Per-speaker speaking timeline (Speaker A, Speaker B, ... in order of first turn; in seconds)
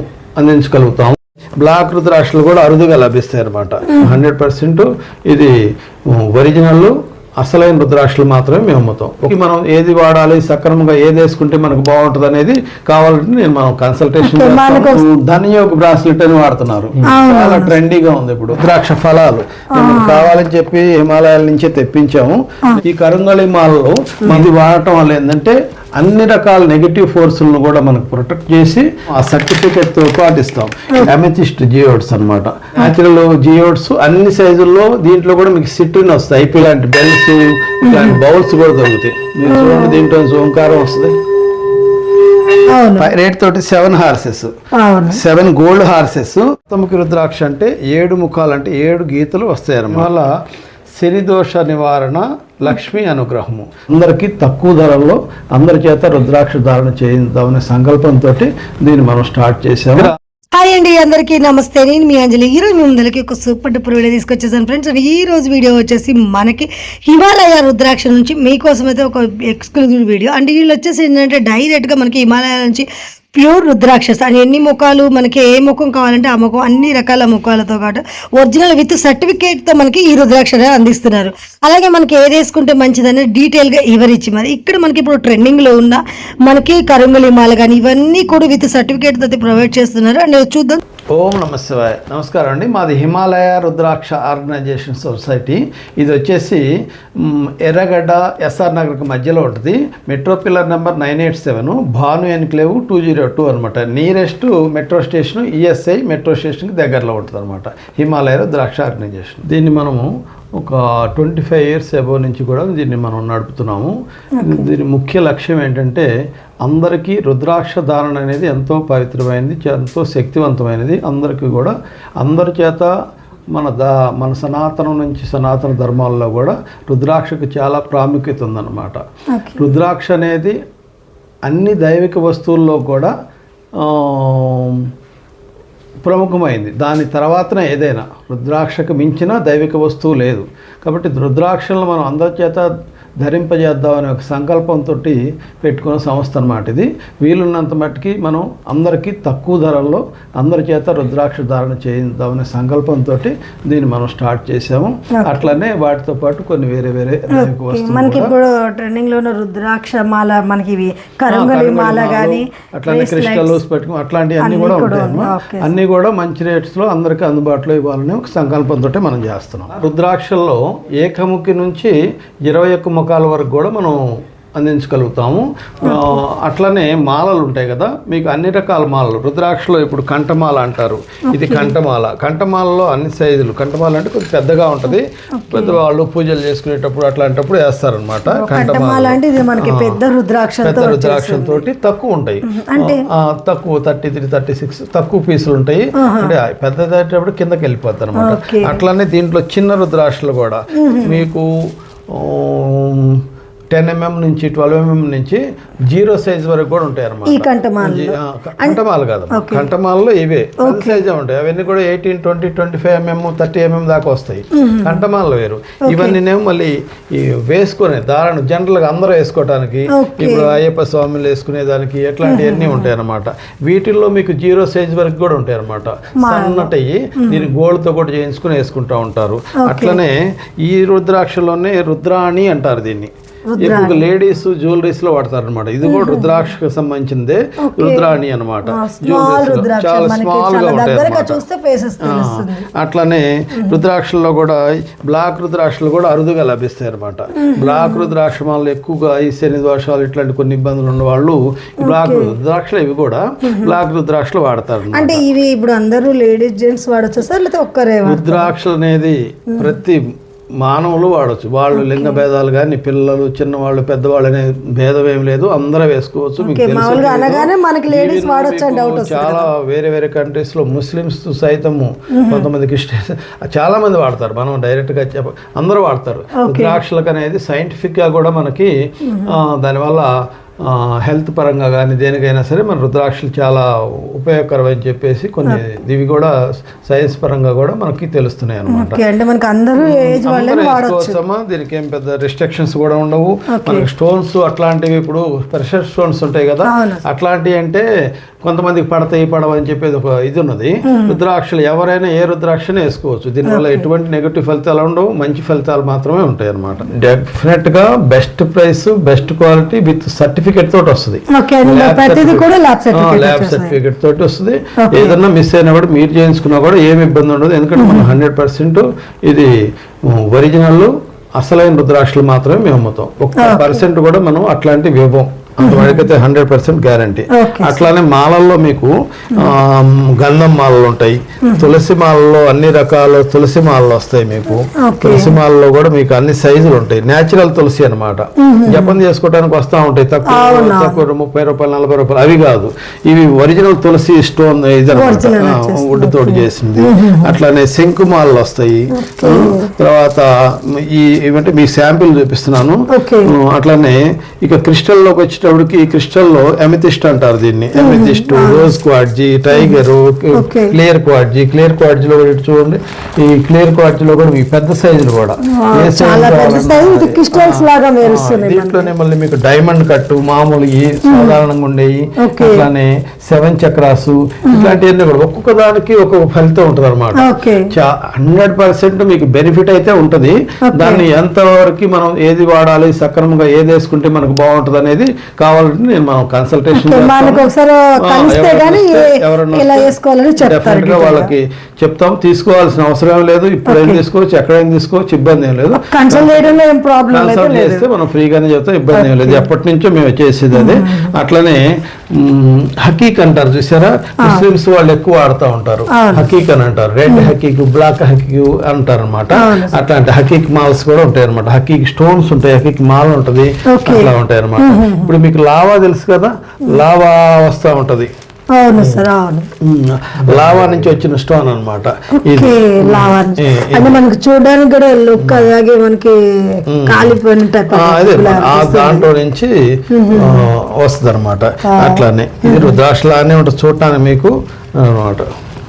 Speaker A: 0.4-41.2, 43.0-44.5, 45.1-50.3, 51.0-60.1, 91.1-116.1, 116.6-122.9, 123.5-129.0, 129.6-130.6, 131.5-133.1, 133.8-134.9, 136.1-158.3, 161.3-174.0, 174.6-190.0, 190.6-241.4, 242.0-255.2, 258.1-289.0, 289.8-297.9, 298.4-387.4, 388.0-396.4, 397.1-418.1, 418.8-419.0, 419.6-424.0, 425.2-425.5, 426.7-427.2, 427.7-435.3
Speaker B: 14.2-15.0, 17.0-17.8, 19.8-20.4, 37.9-38.2, 39.5-40.0, 42.7-43.1, 44.7-45.2, 60.5-90.8, 114.4-114.7, 129.3-129.7, 155.1-155.5, 157.3-163.6, 164.4-165.7, 175.8-176.2, 181.3-181.7, 185.3-185.8, 188.3-191.6, 192.4-193.0, 196.0-196.3, 198.2-198.8, 200.8-201.2, 207.2-208.8, 209.3-209.7, 210.6-211.0, 214.5-215.0, 215.9-216.2, 219.9-220.5, 222.2-222.9, 226.2-227.5, 229.6-230.0, 233.5-234.1, 235.8-236.4, 237.6-238.1, 238.7-242.7, 247.3-248.1, 251.8-252.3, 253.4-253.7, 254.9-258.5, 261.7-262.2, 266.4-269.5, 272.1-272.5, 276.4-276.8, 279.1-279.4, 288.7-291.2, 293.5-293.9, 296.6-297.0, 300.9-301.2, 303.5-303.9, 311.3-313.8, 314.8-315.2, 317.8-318.1, 323.4-323.8, 325.6-326.1, 327.3-327.9, 334.8-335.4, 338.4-339.0, 340.3-341.0, 344.9-347.4, 348.9-349.7, 352.9-353.3, 357.8-358.7, 359.5-359.8, 360.4-360.7, 365.4-368.9, 371.1-371.4, 372.2-372.7, 374.5-374.8, 377.2-377.7, 380.7-381.0, 386.7-391.3, 393.7-394.0, 395.8-397.9, 398.9-399.4, 400.5-401.1, 405.9-406.3, 409.3-409.8, 413.7-415.1, 418.5-419.5, 422.2-429.1, 429.9-430.5, 431.6-432.8